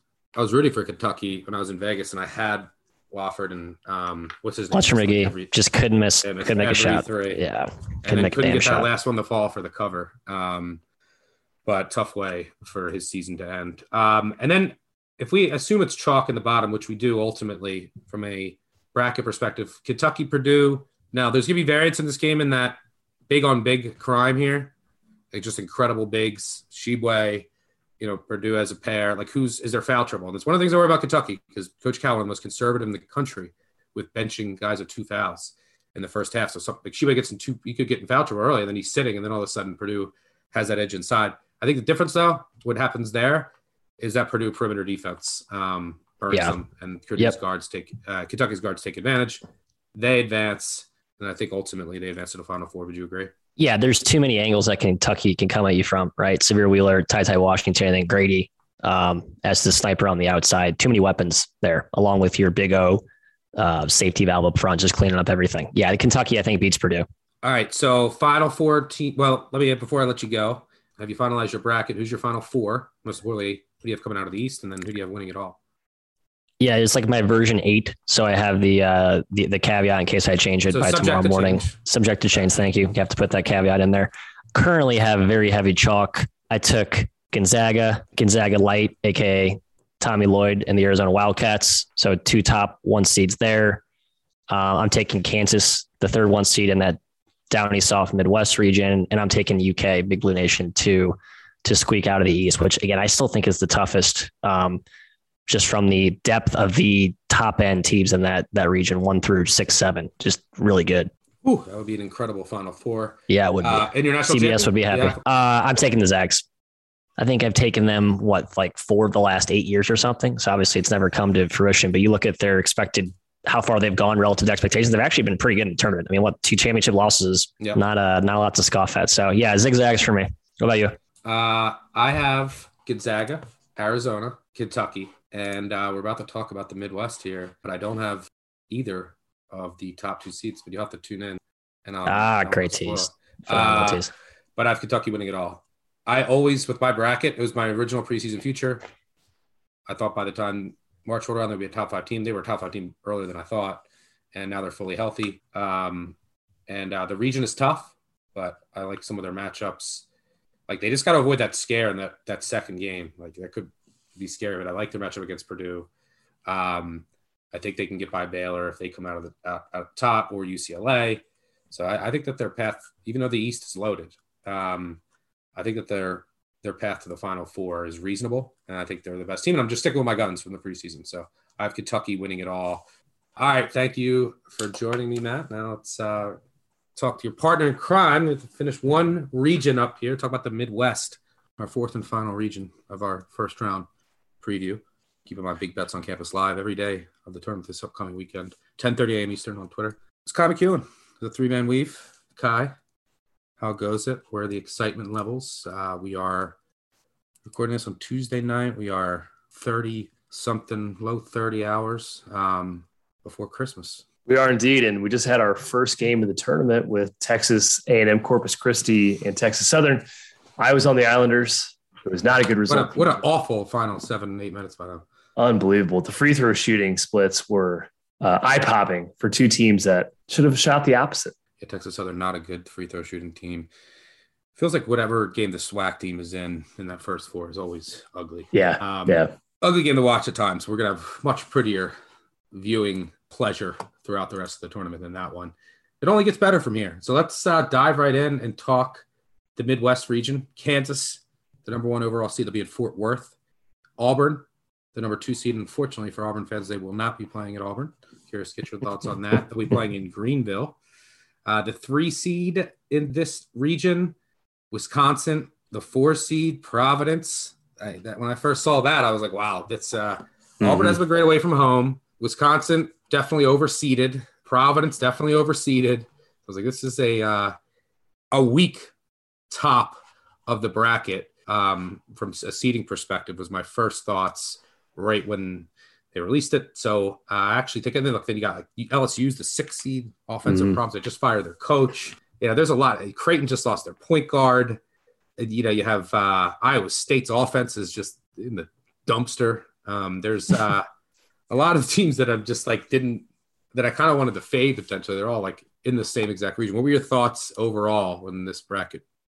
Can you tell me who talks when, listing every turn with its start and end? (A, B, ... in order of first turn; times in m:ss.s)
0:00.4-0:05.6 A
0:04.7-0:08.9 B
0:06.2-0:07.4 A
0:08.0-0:10.8 A
0:11.7-0:22.8 A
0:23.3-0:24.7 A
0:25.3-0:27.5 A
0:28.0-0:49.4 A
0:50.0-0:53.3 A
0:53.6-1:03.0 B
1:03.6-1:07.0 B
1:07.4-1:15.6 A
1:16.6-1:33.8 B
1:20.7-1:21.8 A
1:34.5-1:37.0 B
1:37.5-1:44.8 B
1:45.5-1:51.1 B
1:51.4-1:55.2 A
1:53.3-1:56.4 B
1:57.2-2:11.0 B
2:11.2-2:24.0 A
2:22.1-2:24.1 B
2:24.6-2:28.8 A
2:29.9-2:36.2 A
2:36.7-2:40.1 A
2:40.7-2:45.9 A
2:46.5-2:55.0 A
2:55.6-3:02.8 A
3:03.4-3:06.4 A
3:07.0-3:13.9 A
3:14.4-3:22.8 A
3:23.6-3:26.6 A
3:27.4-3:34.0 A
3:34.3-3:40.1 C
3:40.6-3:43.2 C
3:42.7-3:45.0 A
3:45.4-3:51.3 C
3:51.6-3:53.7 A
3:54.6-4:02.0 A
3:58.5-3:59.3 C
4:02.5-4:09.0 A
4:09.6-4:13.3 A
4:14.0-4:20.8 A
4:21.4-4:24.2 A
4:24.7-4:37.6 A
4:30.6-4:30.9 C
4:38.3-4:38.9 A
4:39.5-4:54.8 A
4:55.4-5:00.9 A
5:01.5-5:09.0 A